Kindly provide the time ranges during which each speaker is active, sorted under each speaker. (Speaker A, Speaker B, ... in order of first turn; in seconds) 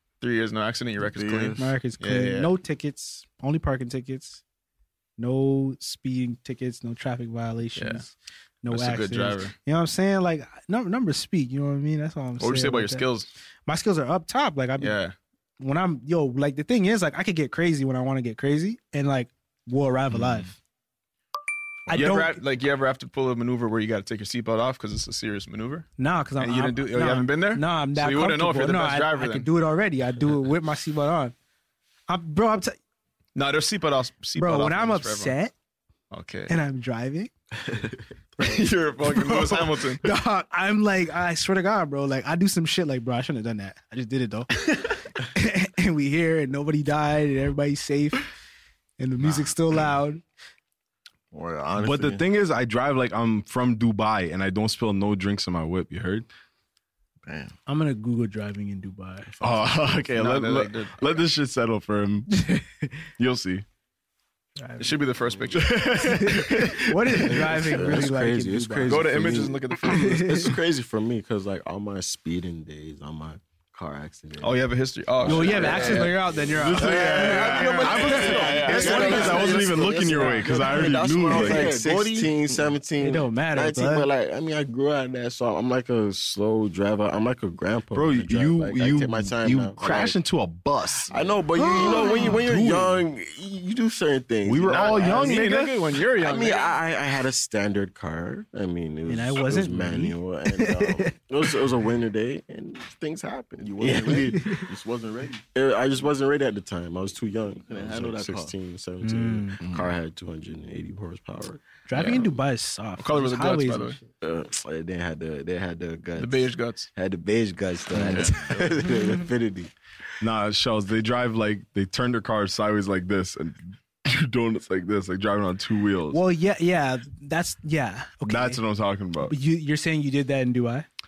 Speaker A: 0.2-2.5, 7.8-8.0, 8.7-9.5, 12.4-13.3, 14.8-15.1, 21.9-25.9, 26.4-29.5, 33.3-35.3, 36.1-36.5, 38.4-40.0, 60.1-61.2, 64.8-66.4, 68.9-70.3, 74.4-76.2, 76.7-79.7, 94.7-96.8, 111.9-112.3, 113.0-114.0, 116.2-116.9, 117.9-118.9
Speaker B: 1.0-1.6, 51.3-52.2, 57.2-57.5, 79.1-79.5, 80.6-82.7, 91.8-92.1, 103.6-105.4, 107.7-108.5
Speaker C: 1.6-4.4, 5.2-13.1, 13.7-15.0, 15.6-20.5, 21.9-22.4, 26.0-31.3, 32.1-32.8, 34.4-35.5, 36.5-37.3, 38.4-44.5, 45.2-48.3, 49.0-50.2, 57.7-59.3, 62.4-62.6, 64.6-65.0, 66.0-69.0, 69.9-70.3, 75.2-79.2, 80.2-80.5, 83.0-84.1, 91.5-92.4, 99.1-101.1, 104.1-104.6, 109.0-109.6, 111.9-114.0, 126.1-128.6, 129.2-130.8
Speaker D: 20.1-20.5, 51.8-56.3, 59.4-62.5, 63.2-63.6, 65.5-67.6, 75.7-81.8, 87.9-91.1, 91.6-93.0, 94.4-95.7, 117.9-118.3, 120.2-126.2, 128.2-129.3
Speaker E: 67.2-74.7, 75.2-90.2, 91.1-104.7, 105.5-111.6, 114.2-119.7